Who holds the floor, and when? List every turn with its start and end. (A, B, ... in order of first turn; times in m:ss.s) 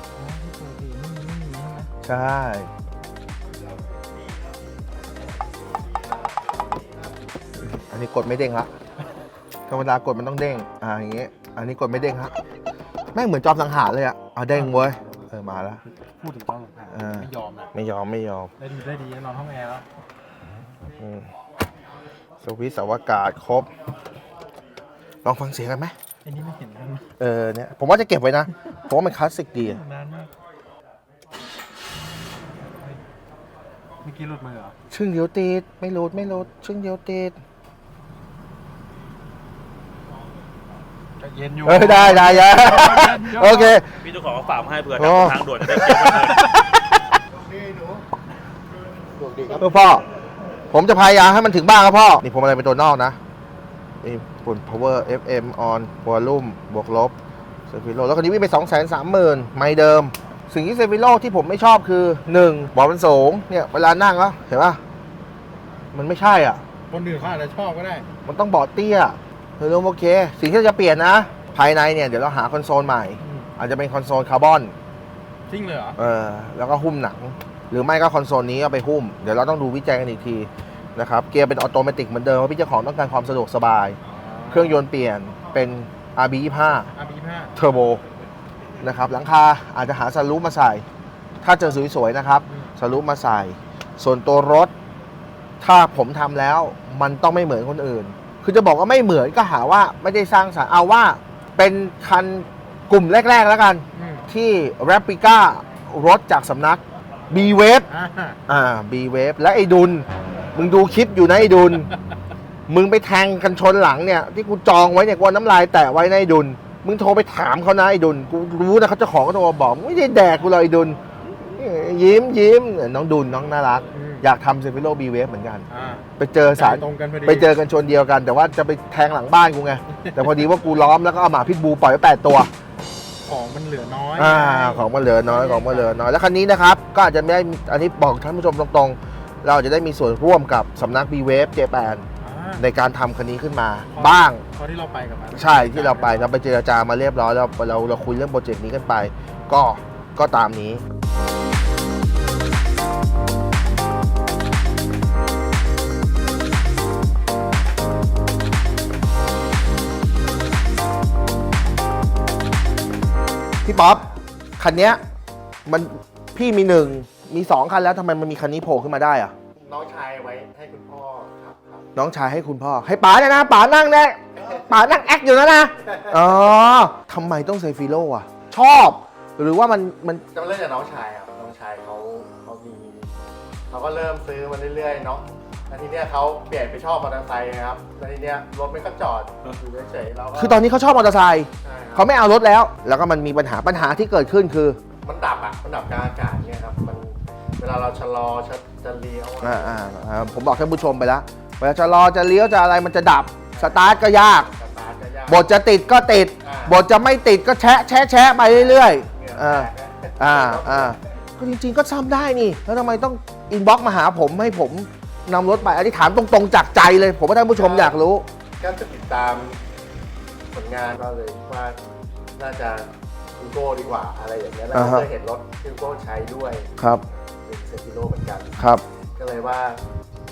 0:00.1-0:01.9 A
0:02.0-0:02.7 B
0:07.6-0:08.7 B
0:09.7-0:12.3 B
0:13.1-0:15.8 B
0:14.5-0:14.9 A
0:16.2-0:17.7 A
0:16.9-0:18.5 B
0:18.6-0:19.8 A
0:21.0-0:21.3 B
0:22.4-0:23.7 B
0:25.2-0:25.9 B
0:26.2-0:27.1 A
0:27.2-0:29.8 B
0:29.6-0:30.3 A
0:34.0-0:34.7 A
0:34.9-0:37.4 B
0:41.2-0:43.8 A
0:41.6-0:43.8 B
0:43.9-0:46.5 C
0:45.0-0:47.2 B
0:47.3-0:48.0 D
0:49.1-0:49.7 D
0:49.6-0:50.0 B
0:50.7-0:53.2 B
0:54.0-0:57.1 B
0:57.7-1:04.8 B
1:05.9-1:06.6 B
1:06.9-1:08.1 A
1:08.2-1:14.7 B
1:13.2-1:13.5 A
1:15.5-1:16.0 A
1:16.0-1:24.0 B
1:24.0-1:24.8 A
1:24.5-1:26.9 B
1:26.9-1:27.5 A
1:27.6-1:28.0 B
1:28.8-1:30.8 B
1:31.4-1:34.7 B
1:32.5-1:32.7 A
1:35.6-1:47.9 B
1:43.9-1:44.3 A
1:47.9-1:48.4 A
1:48.5-1:51.9 B
1:52.7-2:01.0 B
2:01.5-2:05.6 B
2:03.9-2:04.3 A
2:05.7-2:07.5 A
2:06.2-2:12.5 B
2:09.9-2:10.3 A
2:13.2-2:16.0 A
2:14.2-2:22.1 B
2:22.2-2:22.6 A
2:22.6-2:24.4 B
2:23.9-2:26.3 A
2:25.3-2:30.8 B
2:43.6-2:44.0 B
2:43.7-2:44.2 D
2:44.6-2:45.0 B
2:45.6-2:49.3 B
2:49.6-2:51.9 D
2:52.0-3:00.2 B
2:54.4-2:54.9 D
2:55.8-2:56.3 D
3:00.3-3:03.1 D
3:03.7-3:10.6 D
3:10.4-3:14.8 B
3:11.6-3:12.1 D
3:15.0-3:19.8 D
3:19.4-3:24.5 B
3:23.5-3:25.4 D
3:25.3-3:38.3 B
3:26.4-3:26.8 D
3:28.4-3:31.0 D
3:37.5-3:38.0 D
3:38.6-3:39.6 D
3:40.5-3:46.7 D
3:44.7-3:45.1 B
3:47.4-3:48.6 D
3:48.6-3:48.8 B
3:49.2-3:49.8 D